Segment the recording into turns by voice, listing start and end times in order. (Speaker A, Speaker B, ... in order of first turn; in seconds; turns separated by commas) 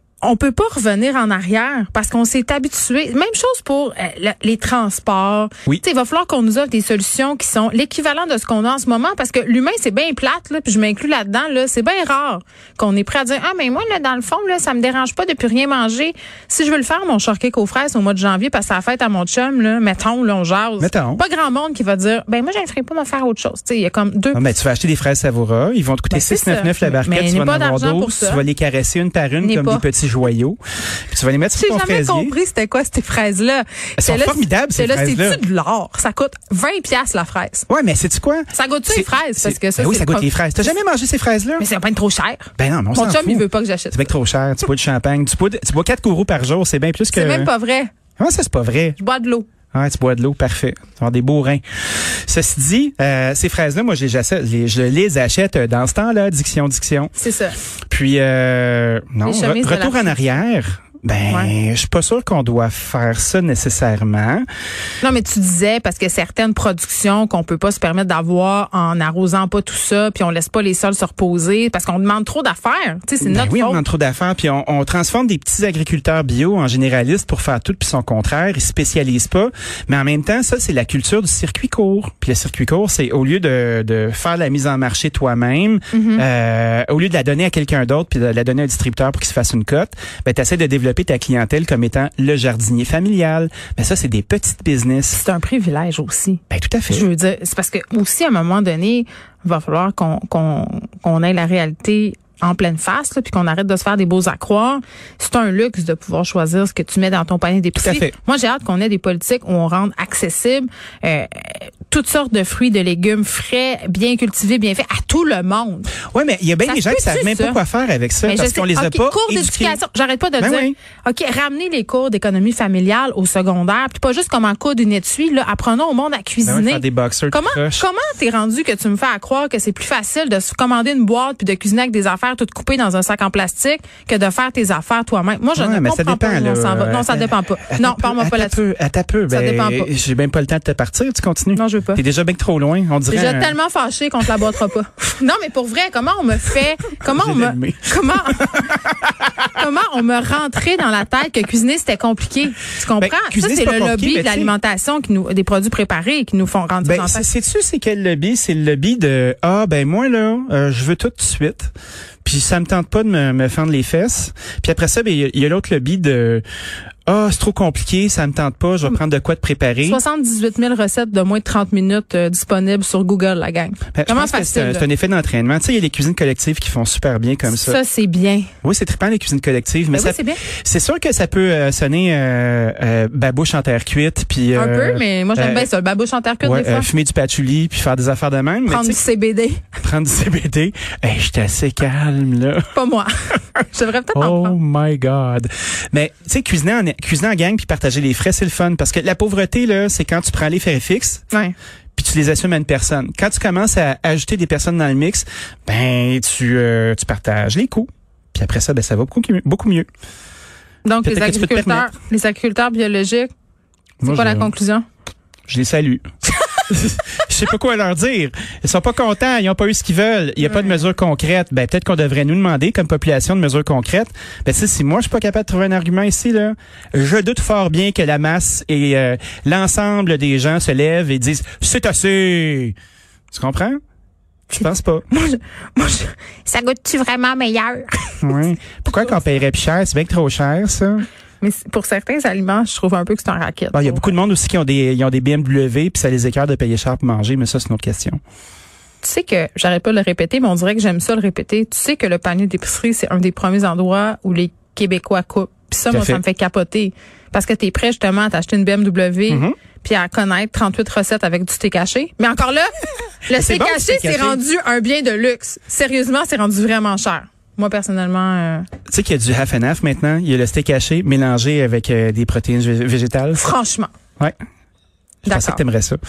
Speaker A: 0.2-24.4, Speaker B: 20.8-21.2, Speaker B: 24.3-32.3, Speaker A: 26.1-28.4, Speaker A: 29.4-29.9, Speaker A: 31.5-37.6, Speaker B: 34.0-35.4, Speaker B: 37.7-41.6, Speaker A: 38.5-40.8, Speaker A: 41.6-44.1, Speaker B: 42.6-47.5, Speaker A: 47.1-47.9, Speaker B: 48.2-49.0, Speaker A: 49.0-49.5, Speaker B: 49.7-57.1, Speaker A: 57.1-57.6, Speaker B: 57.9-64.4, Speaker A: 59.2-60.1, Speaker A: 65.0-73.8, Speaker B: 73.2-95.2, Speaker A: 85.9-86.2, Speaker A: 95.1-115.9, Speaker B: 96.5-97.1, Speaker B: 107.8-108.1, Speaker B: 116.1-119.8, Speaker A: 116.6-117.6, Speaker A: 118.2-138.6, Speaker B: 120.4-120.8, Speaker B: 126.4-127.8, Speaker B: 135.5-143.6, Speaker A: 139.3-139.9, Speaker A: 141.5-142.0, Speaker A: 143.1-148.7, Speaker B: 147.1-149.6, Speaker A: 149.4-157.3, Speaker B: 153.0-154.5, Speaker B: 156.8-161.7, Speaker B: 162.2-166.4, Speaker B: 167.1-170.0, Speaker A: 169.8-174.8, Speaker B: 173.9-177.8, Speaker A: 177.4-178.5, Speaker B: 178.6-185.7, Speaker A: 179.9-180.4, Speaker A: 184.5-186.9, Speaker B: 186.4-189.0, Speaker A: 188.7-189.7, Speaker B: 189.8-192.7, Speaker A: 192.7-194.6, Speaker B: 194.1-201.2, Speaker B: 201.9-209.9, Speaker A: 210.8-213.3, Speaker B: 211.0-211.9, Speaker B: 214.0-214.5, Speaker A: 214.0-214.8, Speaker B: 215.5-216.0, Speaker B: 216.7-232.7, Speaker A: 220.4-220.8, Speaker B: 233.3-233.8, Speaker A: 234.5-239.3, Speaker B: 234.5-235.1, Speaker B: 238.2-241.1, Speaker A: 241.4-244.1, Speaker B: 243.7-248.2, Speaker A: 249.0-262.7, Speaker B: 255.9-256.2, Speaker B: 259.3-259.6, Speaker A: 263.2-268.7, Speaker B: 263.3-264.4, Speaker B: 268.9-273.5, Speaker A: 273.4-273.9, Speaker A: 275.2-275.6, Speaker B: 275.2-276.0